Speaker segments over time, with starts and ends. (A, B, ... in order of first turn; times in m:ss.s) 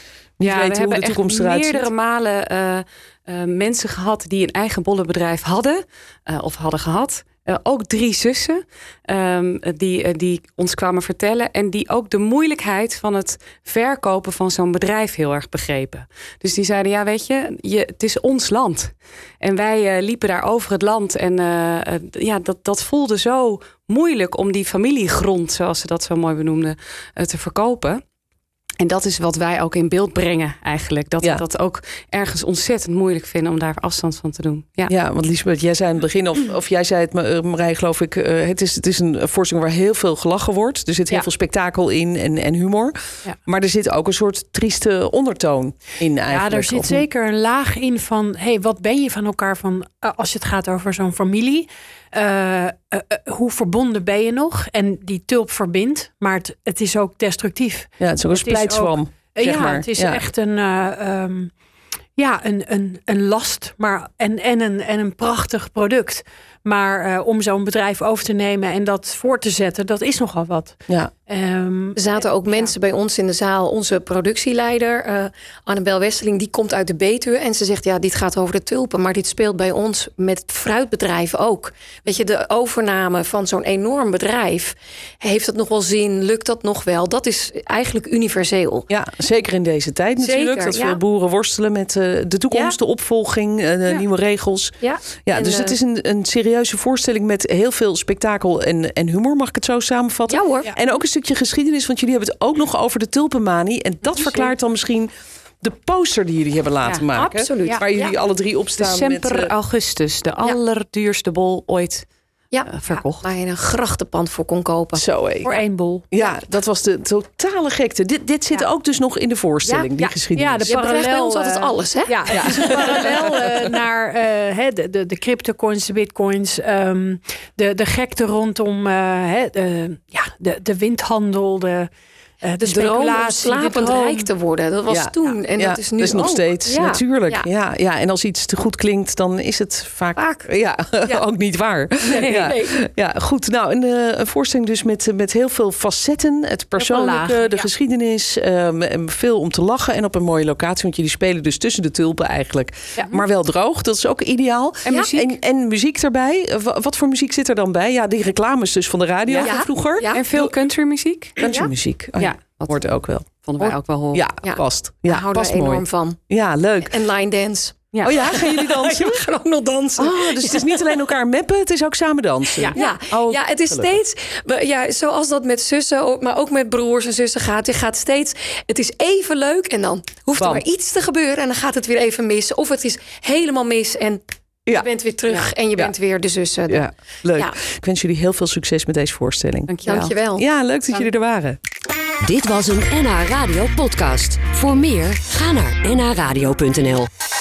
0:00.4-0:01.9 A
0:00.4-0:28.0 B
0:28.8-0:34.9 B
0:34.9-0:47.0 A
0:46.3-1:01.5 C
0:58.0-1:00.2 A
1:02.2-1:12.7 C
1:12.0-1:28.9 D
1:28.9-1:45.1 A
1:30.2-1:31.0 D
1:32.5-1:32.8 D
1:34.8-1:35.8 D
1:40.3-1:40.7 D
1:45.6-1:49.5 A
1:47.1-1:48.1 D
1:48.8-1:52.0 B
1:52.5-1:55.0 D
1:52.7-1:53.3 B
1:54.9-1:55.5 A
1:55.4-1:56.0 C
1:56.1-2:00.8 A
1:59.6-1:59.9 D
2:00.0-2:11.9 C
2:00.7-2:02.8 D
2:02.3-2:03.4 A
2:12.4-2:14.3 C
2:12.6-2:17.5 D
2:14.9-2:40.5 A
2:20.2-2:20.5 D
2:22.0-2:22.7 C
2:26.8-2:27.7 C
2:34.8-2:35.4 B
2:39.4-2:40.2 D
2:40.1-2:41.5 B
2:41.4-2:47.0 A
2:41.4-2:41.7 D
2:42.1-2:44.2 B
2:44.4-2:46.2 D
2:46.8-2:50.9 D
2:47.9-2:48.2 B
2:48.0-2:49.2 A
2:50.0-2:54.0 A
2:52.7-3:07.6 D
3:00.4-3:00.6 A
3:06.7-3:09.7 A
3:09.7-3:10.1 B
3:09.8-3:11.1 D
3:10.3-3:11.6 A
3:12.2-3:17.1 E